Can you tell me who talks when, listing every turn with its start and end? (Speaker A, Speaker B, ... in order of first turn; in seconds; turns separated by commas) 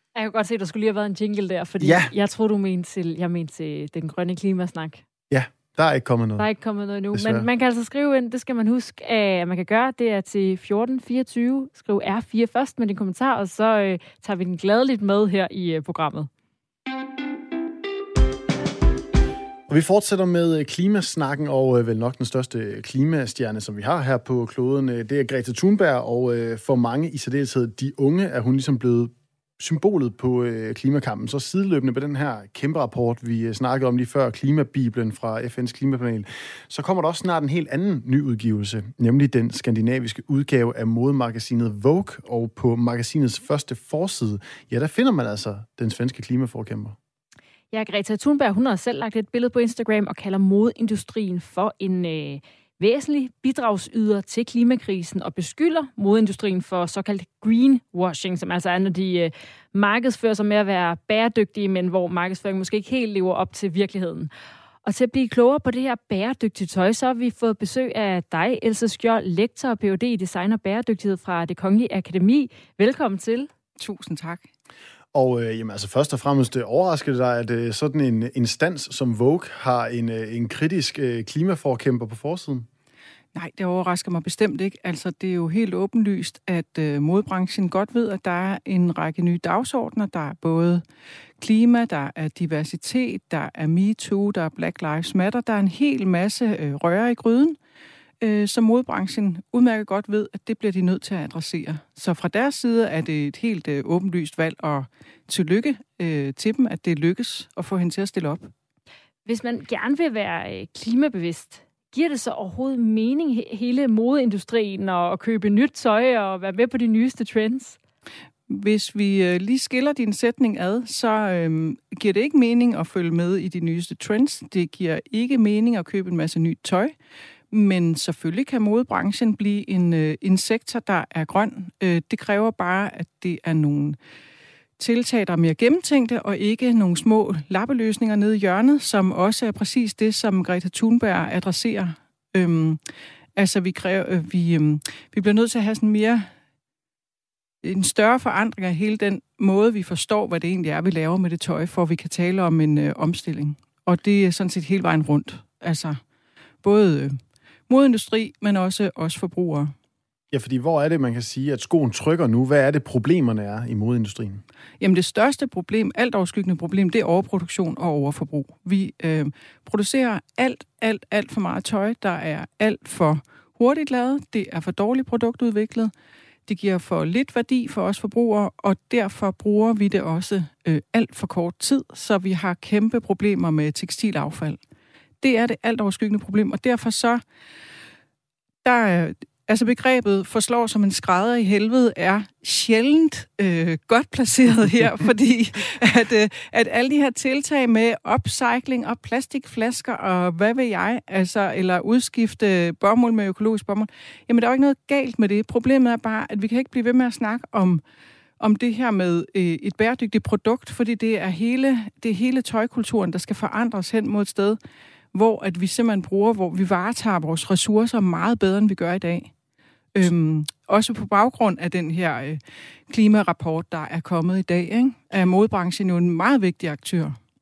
Speaker A: 0.1-5.0, Speaker B: 1.8-2.1, Speaker B: 5.3-6.5, Speaker A: 6.4-16.3, Speaker B: 7.1-7.5, Speaker B: 19.7-47.0, Speaker A: 47.7-64.3, Speaker A: 64.8-73.5, Speaker C: 73.8-74.5, Speaker B: 75.1-82.7, Speaker C: 83.3-90.8, Speaker C: 91.4-97.6, Speaker C: 98.2-108.5, Speaker A: 109.3-117.8, Speaker C: 118.5-126.9, Speaker C: 127.5-134.0, Speaker C: 134.8-142.8, Speaker C: 143.4-146.3, Speaker C: 147.6-156.0, Speaker C: 156.6-157.2, Speaker C: 157.7-159.7, Speaker B: 160.3-164.4, Speaker C: 164.8-175.9, Speaker C: 176.5-184.6, Speaker C: 185.2-187.2, Speaker C: 188.6-207.8, Speaker C: 208.4-214.6, Speaker C: 215.1-219.3, Speaker C: 219.9-227.2